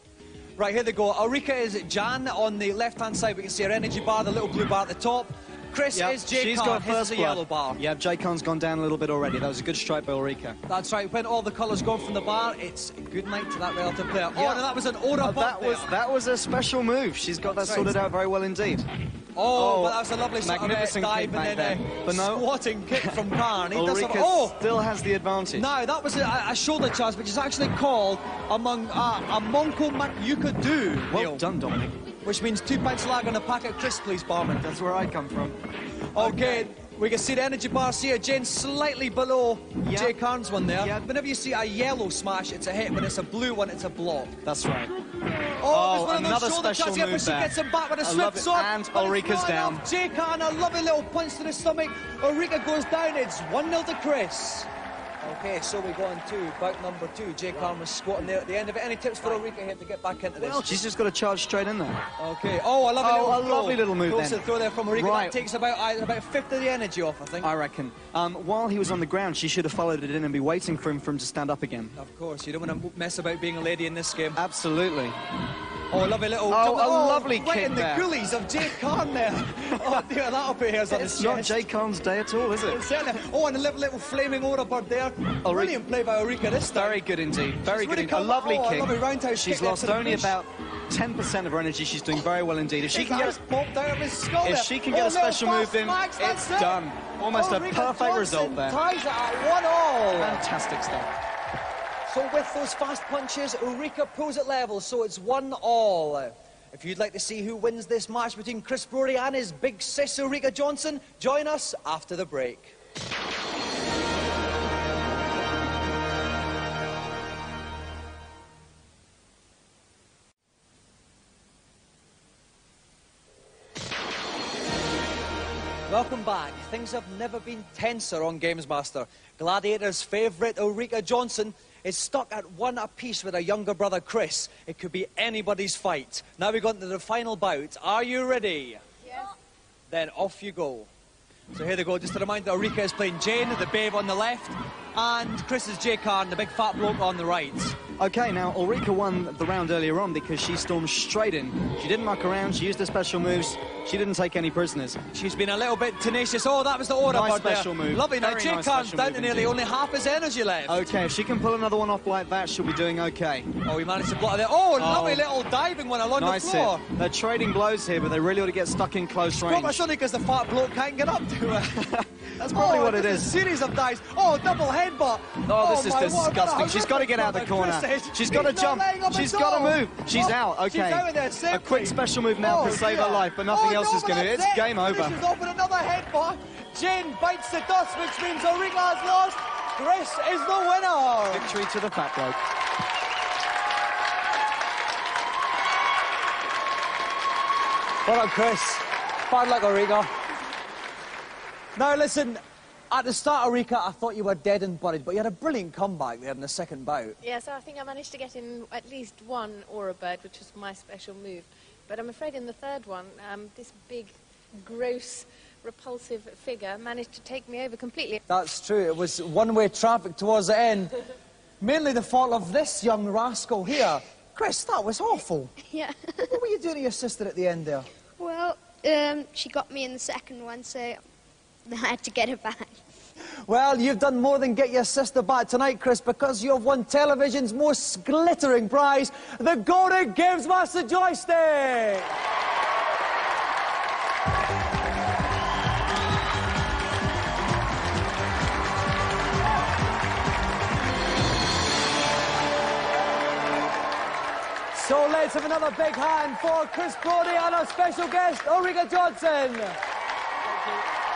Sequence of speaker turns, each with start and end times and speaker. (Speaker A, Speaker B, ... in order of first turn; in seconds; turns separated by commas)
Speaker A: 0.6-7.8, Speaker B: 5.9-10.6, Speaker A: 10.7-15.9, Speaker B: 14.3-14.6, Speaker B: 15.2-18.9, Speaker A: 17.4-17.9, Speaker A: 19.3-24.6, Speaker B: 19.5-25.7, Speaker A: 25.5-31.4, Speaker B: 31.1-32.0, Speaker A: 32.2-34.7, Speaker B: 34.6-35.5, Speaker B: 36.1-36.7, Speaker A: 36.1-44.4, Speaker B: 39.8-40.1, Speaker B: 40.8-41.0, Speaker B: 44.4-44.9, Speaker A: 45.6-54.7, Speaker B: 45.6-49.8, Speaker A: 55.2-60.8, Speaker B: 60.4-62.0, Speaker A: 62.2-67.5, Speaker B: 63.0-65.4, Speaker B: 67.4-72.0, Speaker A: 72.0-74.4, Speaker B: 74.3-75.2, Speaker A: 75.9-81.7, Speaker B: 76.5-78.1, Speaker B: 80.9-82.8, Speaker A: 82.7-87.0, Speaker B: 85.4-85.8, Speaker B: 86.7-93.4, Speaker A: 87.6-90.3, Speaker A: 92.8-100.4, Speaker B: 94.4-98.8, Speaker B: 100.1-101.1, Speaker A: 102.1-112.7, Speaker A: 125.9-138.8, Speaker A: 139.9-140.9, Speaker A: 141.5-147.8, Speaker B: 148.0-155.0, Speaker A: 155.1-160.9, Speaker B: 157.1-159.5, Speaker B: 160.7-163.5, Speaker A: 163.6-166.8, Speaker B: 164.8-165.2, Speaker B: 166.2-169.8, Speaker A: 169.4-171.8, Speaker B: 171.8-173.3, Speaker A: 172.5-191.5, Speaker B: 175.4-185.2, Speaker B: 191.3-192.4, Speaker A: 198.0-200.1, Speaker A: 201.7-207.2, Speaker C: 207.2-218.2, Speaker A: 218.3-221.0, Speaker A: 221.6-225.6, Speaker D: 225.6-226.3, Speaker A: 226.2-227.9, Speaker D: 228.2-231.0, Speaker D: 231.7-232.8, Speaker A: 233.4-242.1, Speaker A: 254.7-259.8